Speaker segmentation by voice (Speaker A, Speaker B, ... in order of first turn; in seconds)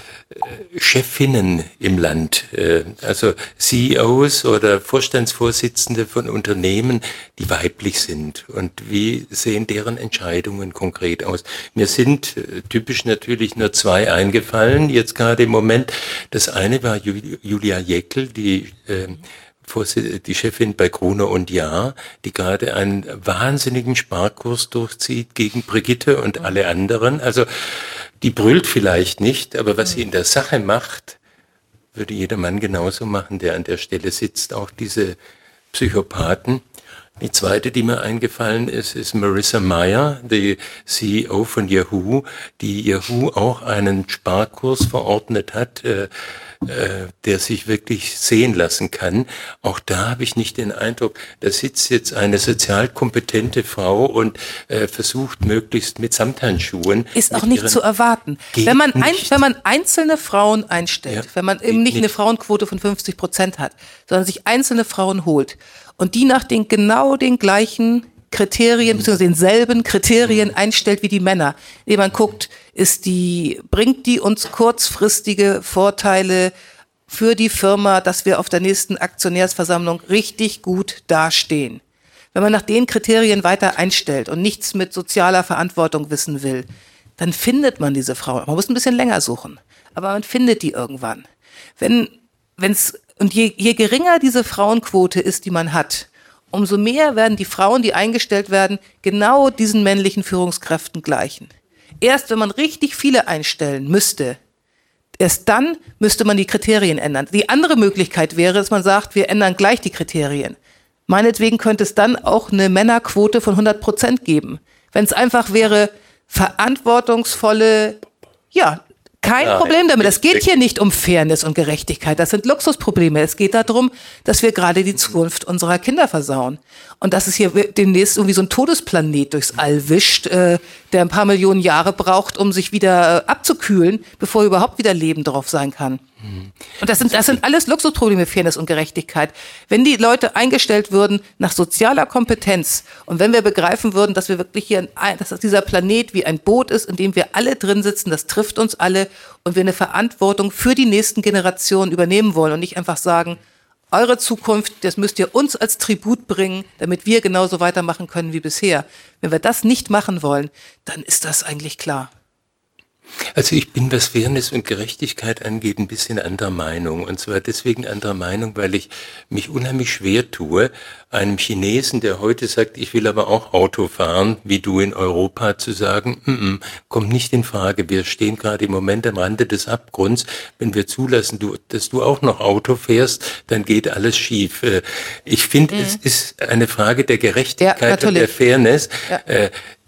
Speaker A: 0.3-31.2, 31.9-35.1, 35.7-36.6, 37.2-57.8, 58.5-59.4, 61.1-62.1, 119.4-120.4, 163.3-189.5
Speaker B: 57.1-76.5, 77.1-81.8, 82.3-86.7, 87.2-91.3, 91.8-101.5, 102.0-104.4, 105.2-110.6, 111.1-118.0, 118.5-136.0, 136.8-162.1, 185.7-186.0, 187.6-188.3